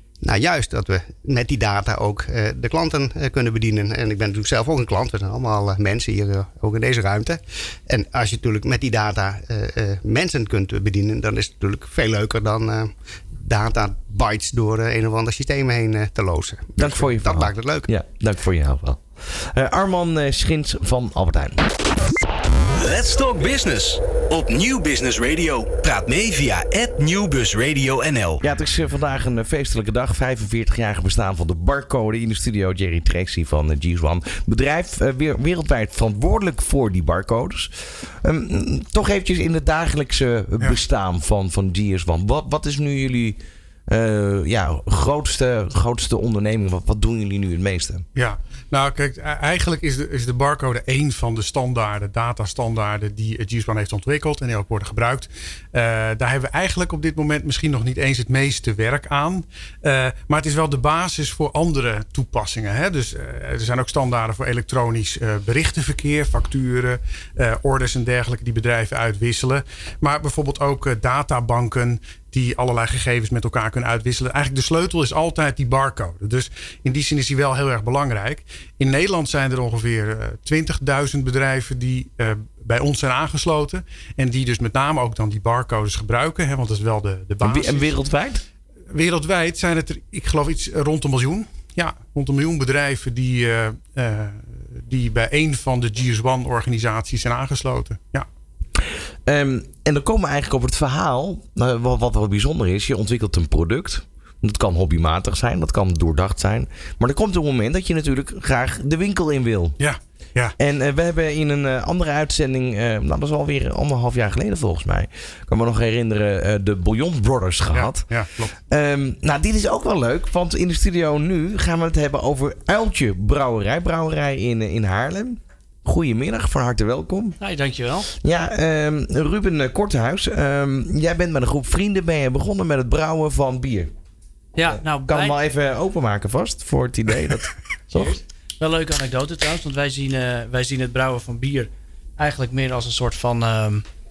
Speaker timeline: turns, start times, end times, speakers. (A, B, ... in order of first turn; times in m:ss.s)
0:00.2-0:12.9 A
0:13.4-0:17.9 A
0:16.8-0:21.6 B
0:22.7-0:28.4 C
0:28.4-0:48.0 B
0:48.1-1:27.9 D
1:27.4-1:28.4 B
1:28.9-1:38.3 D
1:39.2-1:49.8 B
1:49.8-1:50.5 D
1:50.6-1:58.1 B
1:57.7-1:58.5 D
1:58.7-2:07.4 B
2:07.4-2:08.1 E
2:08.2-2:13.9 B
2:14.5-2:15.3 E
2:14.7-2:18.2 B
2:17.9-2:23.8 E